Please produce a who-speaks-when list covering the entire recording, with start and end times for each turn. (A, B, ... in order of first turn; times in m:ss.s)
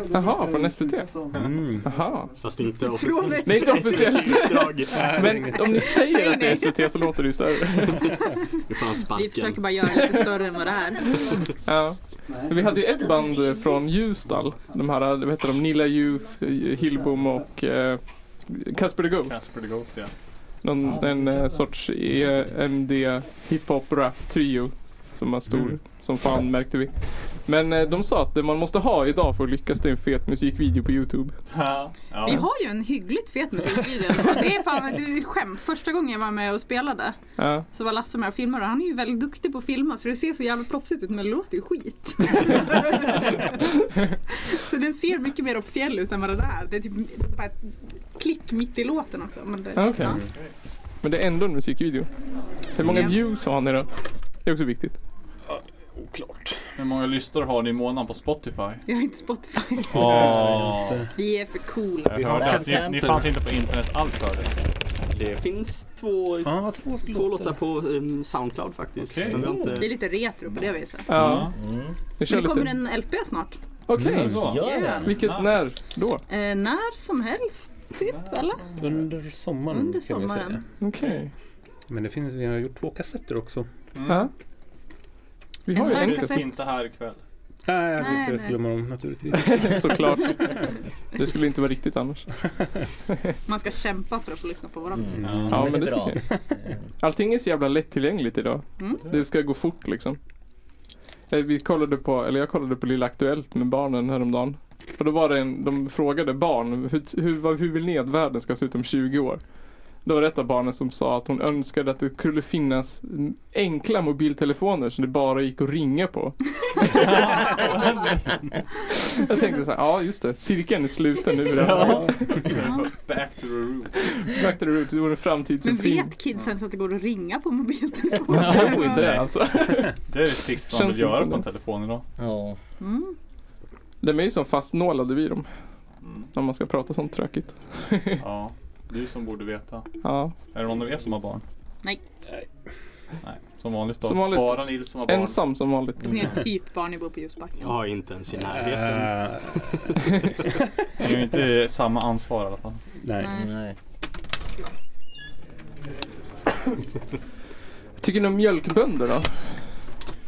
0:00.1-0:01.2 A
0:01.3-0:01.9 B
0:01.8-0:02.3 A
0:02.4-0:05.3 C
0:02.8-0:04.3 D
0:03.4-0:08.1 A
0:04.9-0:05.9 B
0:05.4-0:07.1 D
0:08.7-0:10.2 C
0:09.1-0:11.3 D
0:11.6-0:19.4 A
0:19.2-0:20.1 E
0:20.6-0:31.4 A
0:31.5-0:32.5 E
0:32.2-0:37.2 D
0:37.4-0:37.6 A
0:37.7-0:43.7 D
0:44.5-0:50.2 D
0:49.8-0:50.2 A
0:51.0-0:52.1 A
0:52.8-0:53.9 A
0:52.8-0:53.2 D
0:54.4-0:55.0 A
0:55.5-0:56.6 B
0:56.8-0:58.8 E
0:58.9-1:00.3 D
0:59.9-1:01.0 E
1:00.0-1:01.1 B
1:01.1-1:02.2 D
1:02.0-1:04.5 E
1:02.2-1:03.0 B
1:02.2-1:03.3 F
1:05.1-1:10.0 C
1:06.4-1:07.6 B
1:09.0-1:09.5 E
1:09.7-1:11.1 D
1:11.1-1:11.5 A
1:11.1-1:11.5 E
1:11.6-1:11.9 F
1:12.2-1:12.7 A
1:12.2-1:13.6 D
1:13.9-1:14.5 A
1:14.0-1:14.4 B
1:14.1-1:15.6 E
1:14.4-1:15.1 F
1:14.6-1:15.1 D
1:15.0-1:16.2 A
1:16.3-1:18.7 D
1:18.0-1:18.9 E
1:18.8-1:20.6 B
1:19.7-1:20.6 D
1:20.8-1:21.3 A
1:21.9-1:23.7 B
1:24.0-1:24.3 E
1:25.7-1:26.4 A
1:25.7-1:26.6 D
1:25.8-1:27.2 E
1:27.6-1:30.0 B
1:28.0-1:28.6 D
1:29.4-1:30.5 A
1:31.1-1:32.3 A
1:33.5-1:35.2 D
1:35.0-1:36.2 F
1:35.2-1:35.7 B
1:35.2-1:35.7 E
1:35.5-1:36.2 A
1:37.0-1:40.2 A
1:38.8-1:39.0 D
1:41.3-1:49.4 A
1:50.0-1:57.1 A
1:57.0-1:58.4 E
1:59.2-2:02.4 A
2:01.5-2:04.1 E
2:02.6-2:02.9 D
2:04.2-2:06.1 A
2:05.6-2:09.2 D
2:08.3-2:12.0 E
2:08.3-2:10.0 A
2:10.7-2:11.4 A
2:12.2-2:12.6 F
2:12.8-2:13.1 D
2:14.0-2:15.5 A
2:16.0-2:16.3 E
2:16.3-2:18.2 A
2:18.2-2:19.9 E
2:20.0-2:20.3 A
2:20.5-2:21.4 E
2:23.2-2:25.4 E
2:24.0-2:26.3 A
2:26.0-2:27.7 D
2:27.6-2:30.1 C
2:28.5-2:29.6 B
2:31.0-2:32.8 E
2:33.0-2:33.3 B
2:33.2-2:33.5 D
2:33.4-2:33.7 F
2:38.0-2:39.6 A